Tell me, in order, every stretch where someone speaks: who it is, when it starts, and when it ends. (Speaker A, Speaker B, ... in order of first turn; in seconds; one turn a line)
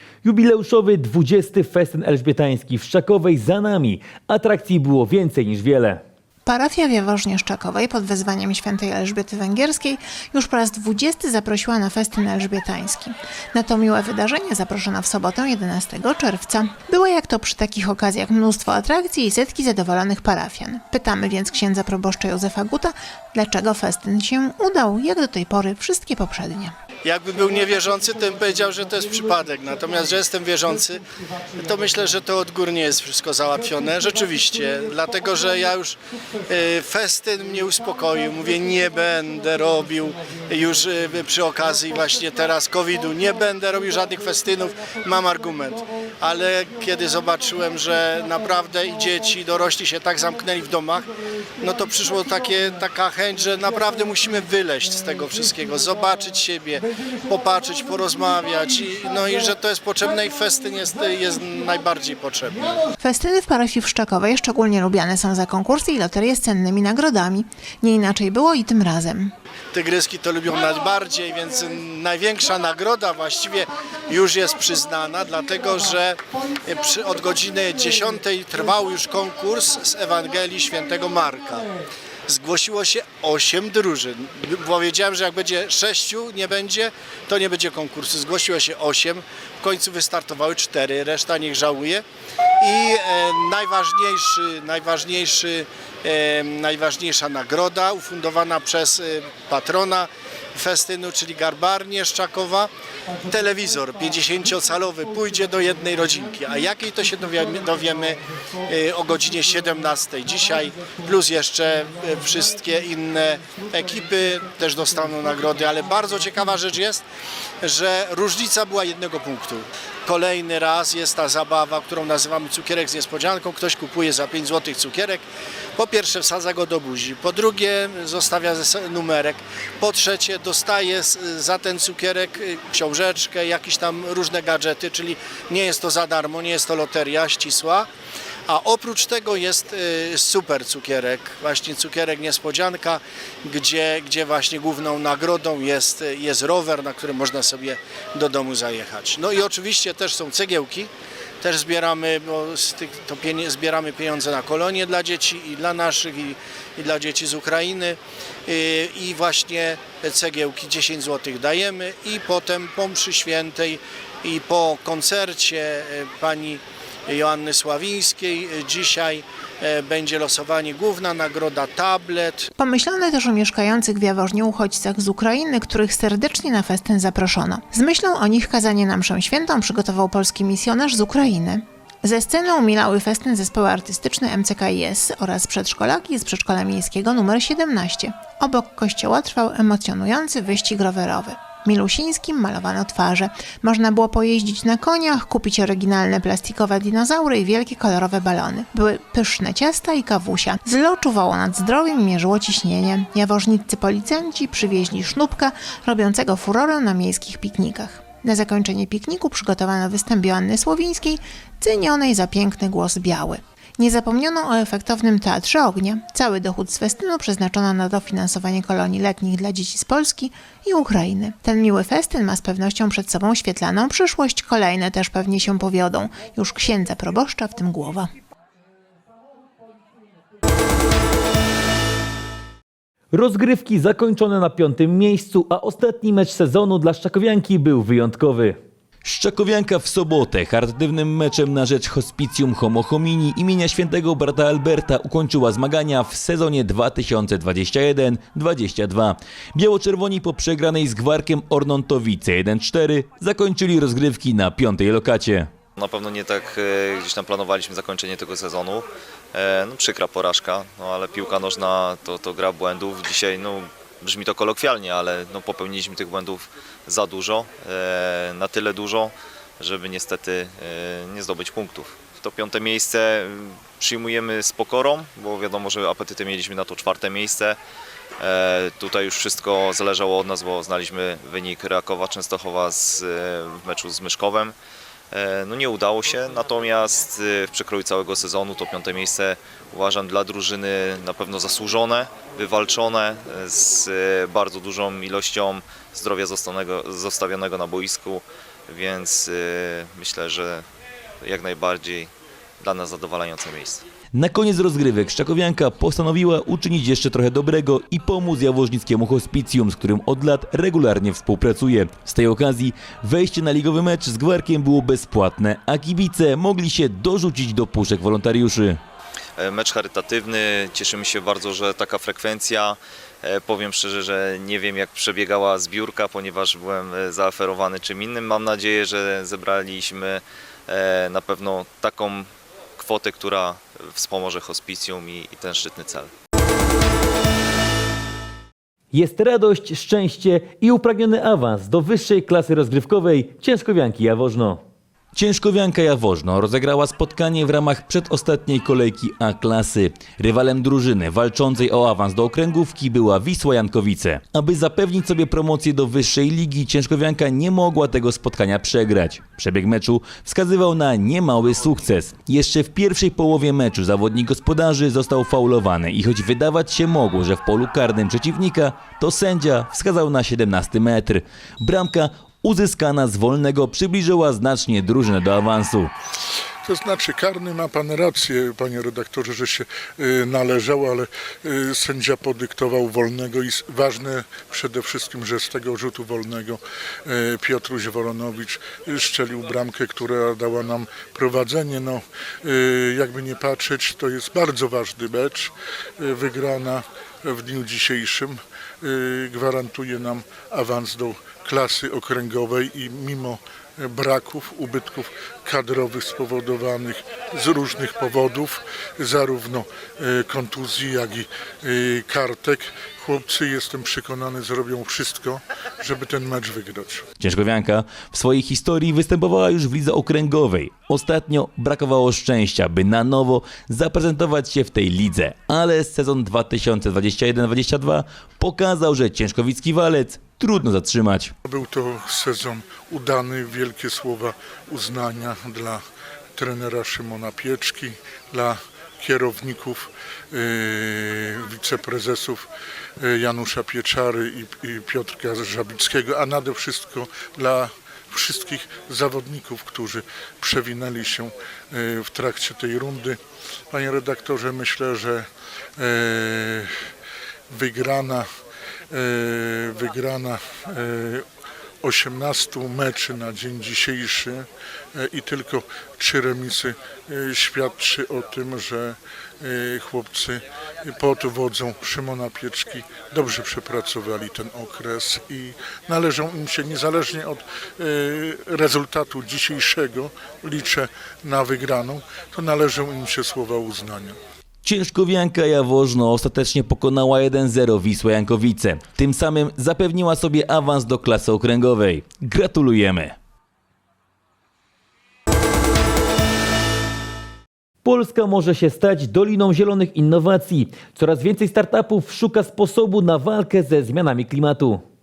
Speaker A: 0.2-6.0
Speaker B: 6.5-26.7
Speaker C: 27.0-31.0
Speaker C: 31.6-62.8
Speaker B: 63.0-69.3
Speaker C: 69.7-81.7
Speaker C: 82.3-92.0
Speaker C: 92.6-102.7
Speaker C: 103.3-117.0
Speaker C: 117.6-125.2
Speaker C: 125.8-137.9
Speaker C: 138.5-150.9
Speaker C: 151.4-172.5
Speaker B: 172.6-228.1
Speaker A: 233.1-238.6
Speaker D: 239.0-255.5
Speaker E: 255.8-277.6
Speaker E: 278.2-284.6
Speaker E: 285.1-300.6
Speaker E: 301.2-303.9
Speaker D: 304.1-318.8
Speaker E: 319.4-336.1
Speaker A: 338.9-344.6
Speaker D: 345.1-375.9
Speaker F: 376.6-417.1
Speaker D: 417.2-431.3
Speaker F: 431.4-435.8
Speaker F: 436.4-442.5
Speaker F: 443.0-453.2
Speaker F: 453.7-456.7
Speaker F: 457.5-458.3
Speaker F: 458.9-461.2
Speaker F: 461.8-484.2
Speaker D: 484.6-493.1
Speaker A: 497.9-504.8